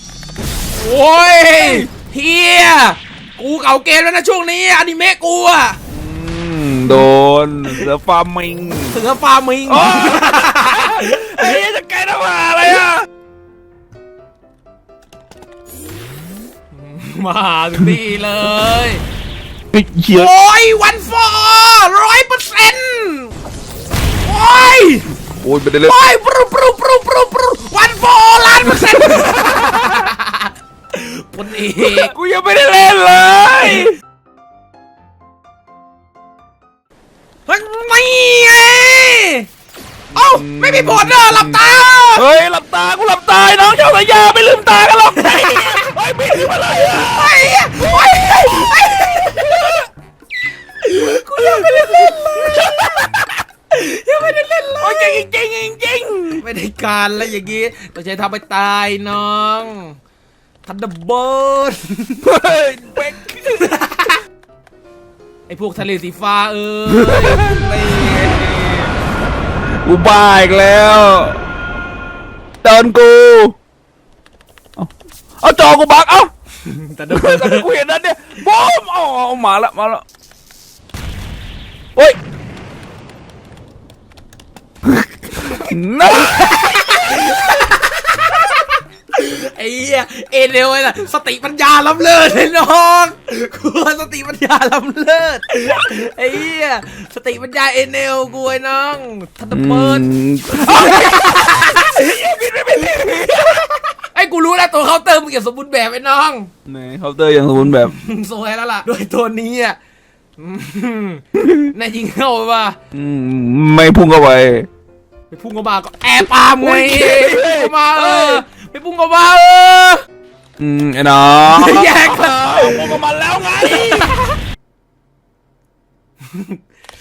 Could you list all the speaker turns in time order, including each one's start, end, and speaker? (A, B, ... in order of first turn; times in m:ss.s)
0:00.7-0:05.8 A
0:01.6-0:01.9 B
0:05.9-0:09.0 B
0:08.9-0:11.6 A
0:09.7-0:13.1 B
0:16.7-0:19.0 A
0:19.7-0:20.3 B
0:20.1-0:23.3 A
0:24.2-0:25.1 A
0:25.4-0:26.0 B
0:25.9-0:32.1 A
0:28.6-0:30.1 B
0:31.8-0:34.0 B
0:37.5-0:39.5 A
0:40.1-0:42.2 A
0:40.2-0:41.6 B
0:42.2-0:49.8 B
0:45.2-0:49.8 A
0:50.8-0:55.3 A
0:51.4-0:53.1 B
0:54.8-0:56.4 B
0:56.4-1:00.0 A
1:00.6-1:02.3 A
1:02.2-1:03.8 B
1:03.4-1:04.2 A
1:05.5-1:07.7 A
1:06.9-1:08.9 B
1:09.8-1:11.4 B
1:12.6-1:13.6 B
1:14.8-1:16.3 B
1:16.6-1:17.7 A
1:17.1-1:20.0 B
1:24.9-1:27.2 B
1:26.1-1:46.5 A
1:39.5-1:43.6 B
1:46.7-1:48.0 B
1:47.7-1:49.8 A
1:50.4-1:52.8 A
1:51.4-1:51.7 B
1:52.9-1:54.7 B
1:55.3-2:00.0 A
1:56.6-1:58.4 B
2:00.6-2:04.2 B
2:01.5-2:03.0 A
2:03.6-2:04.4 A
2:06.3-2:06.6 A